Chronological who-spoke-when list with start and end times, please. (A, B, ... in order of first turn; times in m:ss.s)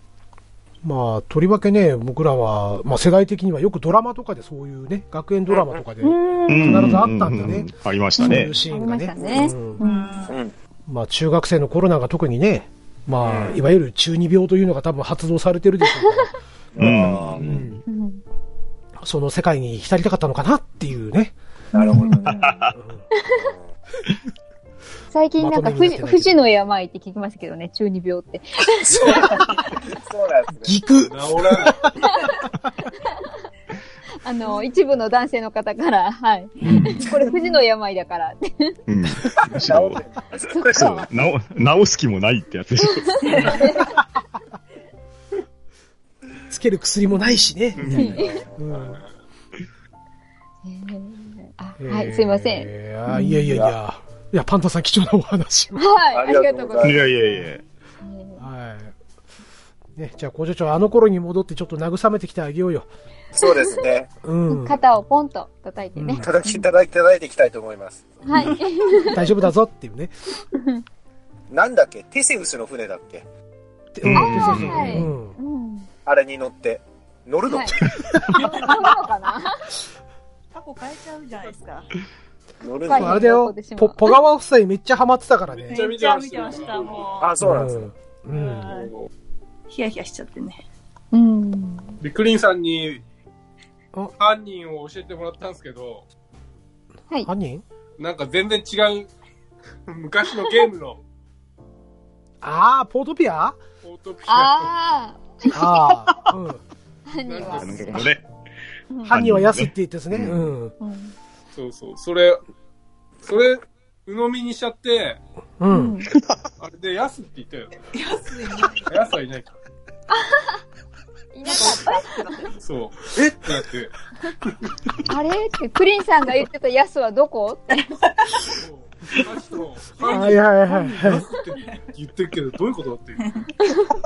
0:00.8-0:09.8 A
0:05.5-0:05.8 B
0:06.0-0:07.0 C
0:06.5-0:08.5 D
0:08.2-0:10.3 C
0:09.2-0:09.5 B
0:09.8-0:10.4 E
0:10.3-0:10.5 B
0:10.9-0:16.3 A
0:13.2-0:13.6 B
0:16.8-0:17.4 B
0:16.8-0:17.8 D
0:17.3-0:17.8 A
0:17.9-0:18.2 C
0:19.0-0:21.3 A
0:21.7-0:22.4 B
0:21.8-0:22.6 C
0:22.2-0:22.7 D
0:22.7-0:23.0 A
0:23.2-0:23.4 C
0:23.2-0:23.6 B
0:25.1-0:29.4 C
0:25.4-0:26.3 A
0:28.8-0:30.8 B
0:30.6-0:32.0 A
0:31.0-0:31.9 F
0:34.2-0:38.8 C
0:36.6-0:37.0 D
0:36.6-0:36.9 A
0:37.1-0:37.6 E
0:38.9-0:40.0 D
0:39.5-0:41.1 B
0:40.5-0:41.1 C
0:40.7-0:43.6 D
0:43.0-0:43.9 C
0:43.2-0:43.8 E
0:46.5-0:49.0 A
0:47.8-0:48.2 D
0:47.9-0:48.4 C
0:47.9-0:48.8 B
0:50.6-0:53.6 C
0:51.8-0:55.8 A
0:55.8-0:58.4 C
0:56.1-0:57.1 B
0:56.8-0:57.6 D
0:58.4-0:58.9 A
1:00.0-1:02.9 A
1:03.3-1:04.1 B
1:03.4-1:03.8 C
1:04.2-1:04.8 A
1:04.5-1:06.6 C
1:06.0-1:06.3 A
1:06.2-1:08.5 B
1:08.2-1:09.4 C
1:09.0-1:10.1 A
1:10.5-1:10.8 C
1:11.5-1:13.2 B
1:13.9-1:15.4 A
1:14.0-1:15.1 D
1:14.1-1:15.9 C
1:16.0-1:17.8 B
1:17.5-1:17.8 C
1:18.1-1:18.4 A
1:18.3-1:19.7 C
1:20.5-1:21.9 E
1:22.6-1:23.3 B
1:22.8-1:24.1 C
1:22.9-1:25.8 A
1:25.5-1:27.2 F
1:25.7-1:27.3 E
1:27.2-1:27.9 B
1:27.4-1:28.7 A
1:28.3-1:28.9 E
1:28.7-1:29.1 F
1:29.7-1:30.6 E
1:31.1-1:32.0 C
1:32.0-1:33.0 F
1:34.2-1:36.0 F
1:37.2-1:37.6 A
1:38.0-1:39.1 F
1:39.9-1:41.0 F
1:42.4-1:43.6 A
1:43.8-1:44.7 F
1:44.3-1:45.8 C
1:45.5-1:46.6 A
1:47.1-1:48.1 C
1:47.2-1:48.1 F
1:47.5-1:48.2 D
1:49.0-1:50.8 A
1:49.1-1:50.5 D
1:50.8-1:51.1 C
1:51.5-1:52.4 F
1:53.2-1:55.2 F
1:55.6-1:55.9 A
1:55.7-1:56.1 C
1:56.1-1:56.4 D
1:56.6-1:57.9 F
1:57.9-1:58.9 E
1:58.8-1:59.6 F
2:00.1-2:00.5 C
2:01.3-2:02.2 C
2:01.4-2:02.5 E
2:01.5-2:01.8 F
2:02.6-2:03.9 F
2:05.1-2:07.9 C
2:08.4-2:13.4 F
2:10.0-2:11.3 A